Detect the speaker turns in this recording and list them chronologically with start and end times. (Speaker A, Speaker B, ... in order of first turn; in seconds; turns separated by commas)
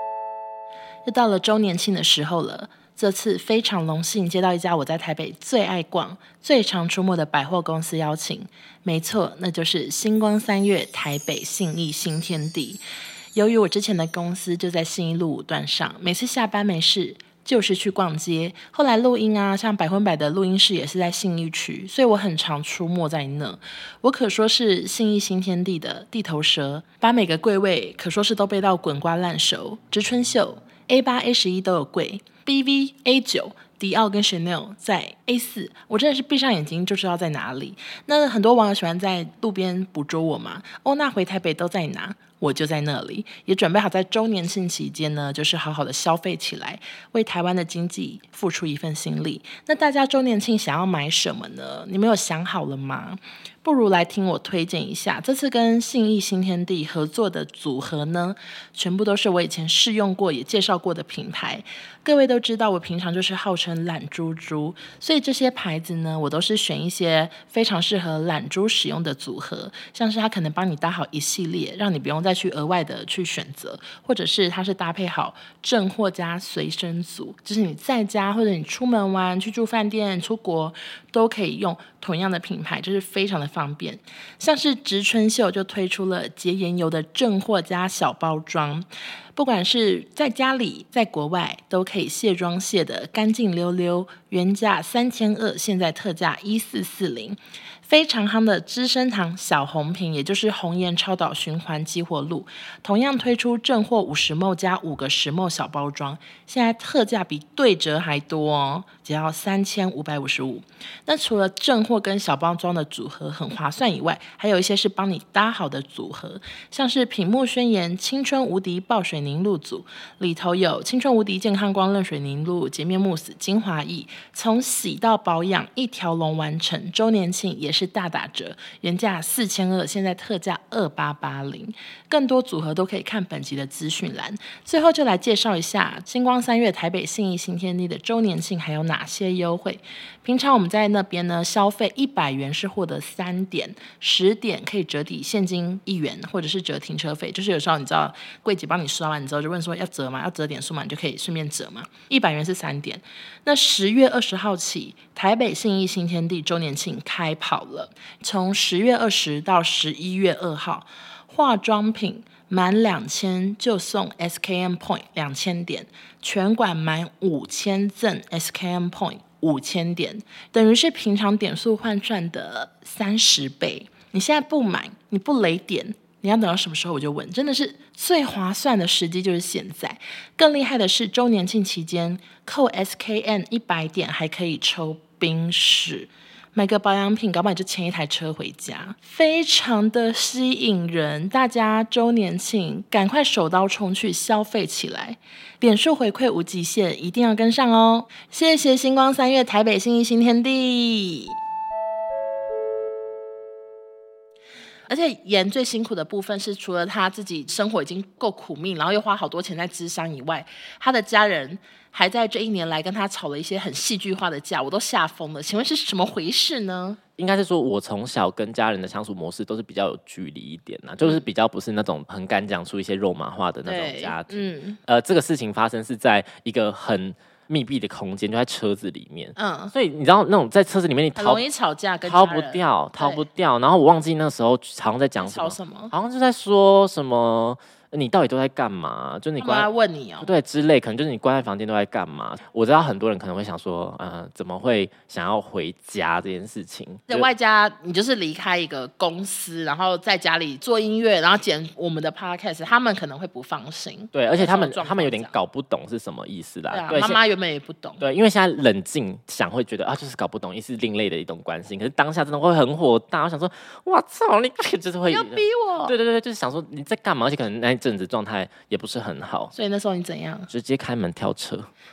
Speaker A: 1.1-12.8, Speaker A: 13.3-201.4, Speaker A: 204.9-217.0, Speaker B: 217.2-231.4, Speaker A: 223.7-224.8, Speaker A: 229.4-229.7, Speaker A: 231.2-233.2, Speaker B: 232.0-239.7, Speaker A: 235.2-235.9, Speaker A: 239.4-240.3, Speaker B: 240.2-247.3, Speaker A: 247.1-255.3, Speaker B: 254.1-257.2, Speaker A: 256.7-258.0, Speaker B: 258.0-269.5, Speaker A: 265.1-265.9, Speaker A: 269.5-270.5, Speaker B: 270.5-271.7